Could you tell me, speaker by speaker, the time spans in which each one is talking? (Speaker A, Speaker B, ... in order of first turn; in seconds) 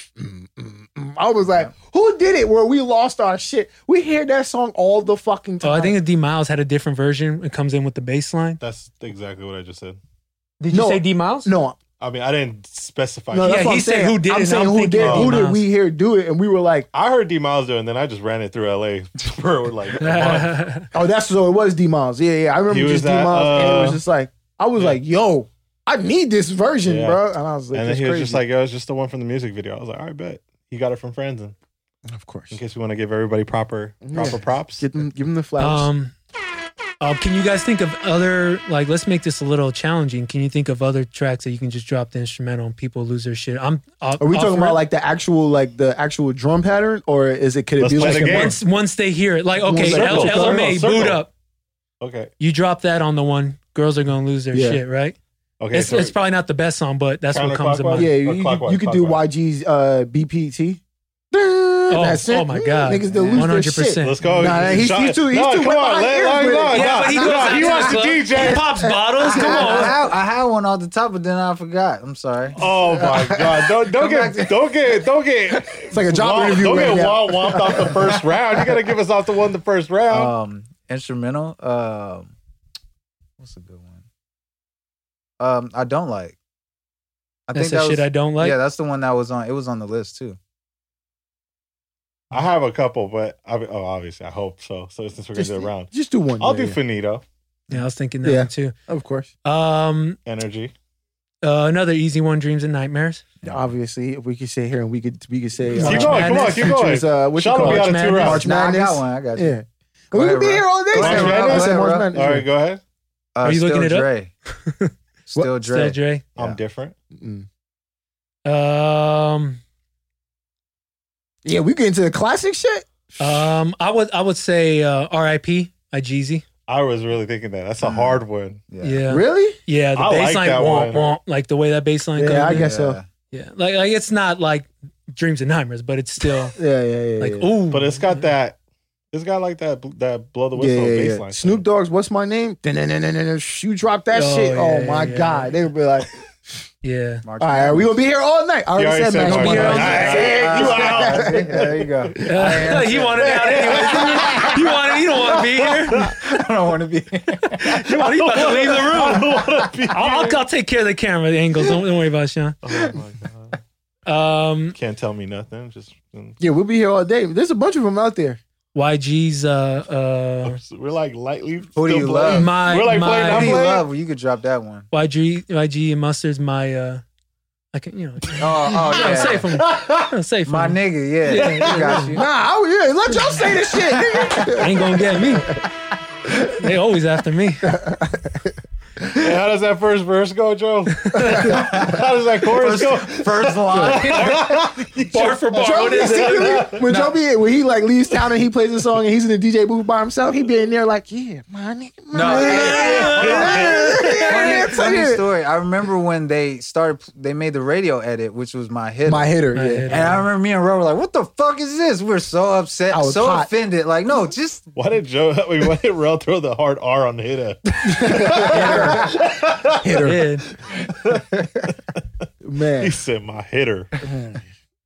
Speaker A: 0.2-6.0, 10.7-11.8, 13.3-16.9, 20.9-28.4, 32.1-32.6, 34.0-35.9, 44.2-48.6, 49.6-50.7, 54.5-54.8, 58.0-70.0, 73.0-73.5, 75.9-78.1, 95.4-96.8, 98.2-99.3, 103.5-112.5, 117.2-117.5, 121.5-122.9, 129.1-129.6, 132.2-133.0, 136.6-137.5, 140.6-146.2, 147.4-151.9, 166.4-168.4, 182.1-185.6, 187.6-188.6, 191.2-191.8, 195.5-205.2, 209.1-210.2, 212.9-213.5, 217.8-219.2, 219.7-220.3, 222.4-223.0, 224.0-224.4
Speaker B: 5.6-8.6, 10.6-11.5, 13.4-15.6, 20.0-20.9, 35.6-36.1, 37.0-44.8, 48.0-51.3, 52.4-55.2, 55.7-58.1, 61.9-64.5, 66.7-70.0, 87.5-88.6, 97.7-98.8, 99.5-100.2, 101.4-103.2, 105.8-106.8, 107.6-108.4, 113.4-114.9, 115.6-116.2, 118.5-119.6, 123.2-126.4, 128.8-132.7, 133.3-136.6, 137.2-138.3, 144.1-145.5, 146.8-147.2, 149.2-150.2, 152.3-156.1, 157.5-159.3, 159.9-162.6, 164.1-164.8, 168.7-170.6, 172.3-173.6, 174.9-177.0, 177.7-182.2, 184.6-185.6, 186.4-187.8, 191.0-191.6, 193.8-194.5, 195.1-196.8, 202.2-204.2, 209.6-210.2, 218.5-219.1, 220.0-220.5
Speaker C: 8.6-10.0, 12.0-13.7, 15.0-15.4, 16.9-20.5, 22.7-24.0, 26.9-27.2, 27.7-31.6, 32.5-34.9, 47.8-48.6, 49.9-51.2, 52.0-52.3, 55.6-56.1, 57.3-59.2, 64.0-68.7, 72.6-80.3, 92.3-97.2, 100.3-100.7, 105.8-108.5, 111.0-112.8, 116.4-117.0, 126.7-128.6, 129.9-131.1, 137.7-138.6, 139.1-141.6, 148.8-151.7, 153.3-154.6, 157.8-160.4, 162.6-163.6, 164.8-166.4, 170.4-173.9, 179.6-180.1, 181.4-182.0, 189.1-196.8, 202.8-204.4, 214.8-220.1, 220.7-221.8, 222.8-224.0
Speaker D: 63.1-63.5, 69.2-72.6, 73.9-74.5, 80.1-82.3, 83.4-84.1, 85.4-86.4, 87.5-90.4, 108.4-109.6, 110.1-112.1, 113.3-114.3, 115.3-116.6, 127.8-129.1, 132.5-133.1, 147.2-147.9, 149.7-154.5, 156.2-157.8, 171.8-172.6, 173.2-174.9, 178.4-179.5, 180.5-182.2, 191.5-194.7, 202.1-209.3, 209.9-214.7